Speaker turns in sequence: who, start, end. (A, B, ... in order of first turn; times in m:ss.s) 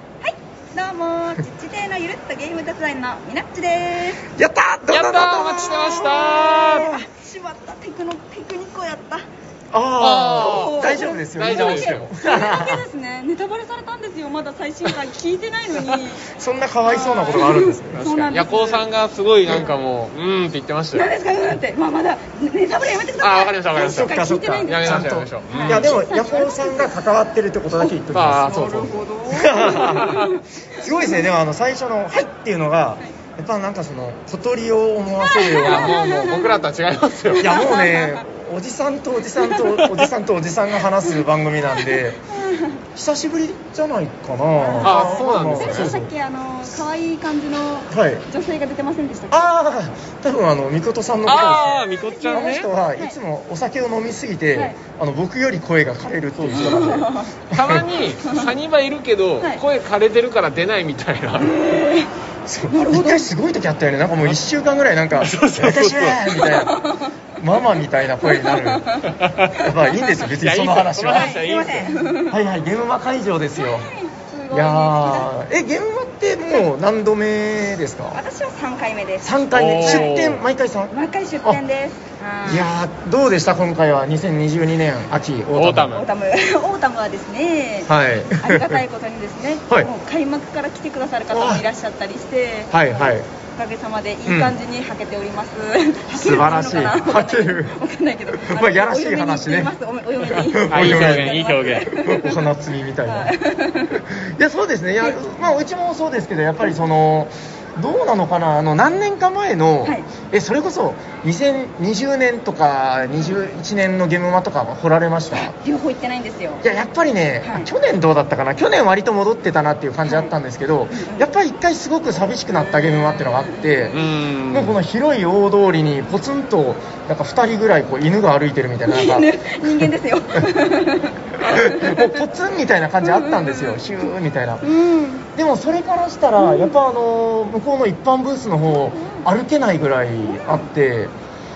0:00.2-0:04.2 A
0:04.3-0:06.8 B
0:04.9-0:06.9 C
0:05.8-0:09.2 A
0:09.7-0:12.8 B
0:10.0-0:12.1 C
0:10.2-0:16.2 A
0:16.2-0:18.3 B
0:16.8-0:18.8 A
0:18.0-0:21.1 C
0:20.9-0:26.9 A
0:23.2-0:25.9 C
0:23.7-0:36.0 B
0:28.1-0:29.0 C
0:28.4-0:31.2 A
0:29.7-0:30.2 C
0:35.2-0:36.6 A
0:35.6-0:37.7 C
0:37.4-0:38.2 A
0:37.4-0:42.2 B
0:39.4-0:39.8 A
0:41.8-0:42.8 A
0:42.9-0:46.1 B
0:44.5-0:49.5 A
0:44.8-0:45.9 C
0:47.9-0:48.2 B
0:49.3-0:57.9 B
0:51.2-0:52.7 C
0:51.9-0:53.1 A
0:56.4-1:01.6 C
0:56.5-0:57.3 A
1:01.4-1:02.1 A
1:02.4-1:06.8 B
1:02.7-1:03.3 A
1:05.2-1:06.4 C
1:06.4-1:07.1 A
1:07.4-1:09.0 B
1:08.2-1:09.2 A
1:09.1-1:09.6 C
1:09.6-1:13.9 B
1:10.2-1:11.9 C
1:11.1-1:12.4 A
1:13.6-1:15.3 A
1:14.5-1:18.2 B
1:18.1-1:20.2 A
1:19.2-1:21.6 B
1:19.5-1:20.4 C
1:20.9-1:22.7 A
1:22.4-1:26.0 B
1:25.5-1:26.0 C
1:25.9-1:42.4 A
1:27.9-1:28.8 B
1:31.3-1:31.6 B
1:32.7-1:33.3 B
1:34.2-1:34.6 B
1:36.1-1:37.8 B
1:38.3-1:39.7 B
1:40.3-1:43.4 B
1:40.6-1:42.0 C
1:43.1-1:44.0 A
1:43.9-1:55.5 B
1:55.4-1:56.6 A
1:56.6-2:10.5 B
2:00.0-2:00.3 A
2:00.9-2:01.3 A
2:02.5-2:04.0 A
2:03.9-2:04.8 C
2:08.9-2:12.1 A
2:11.4-2:14.7 B
2:13.0-2:13.8 A
2:14.6-2:15.2 A
2:15.3-2:21.1 B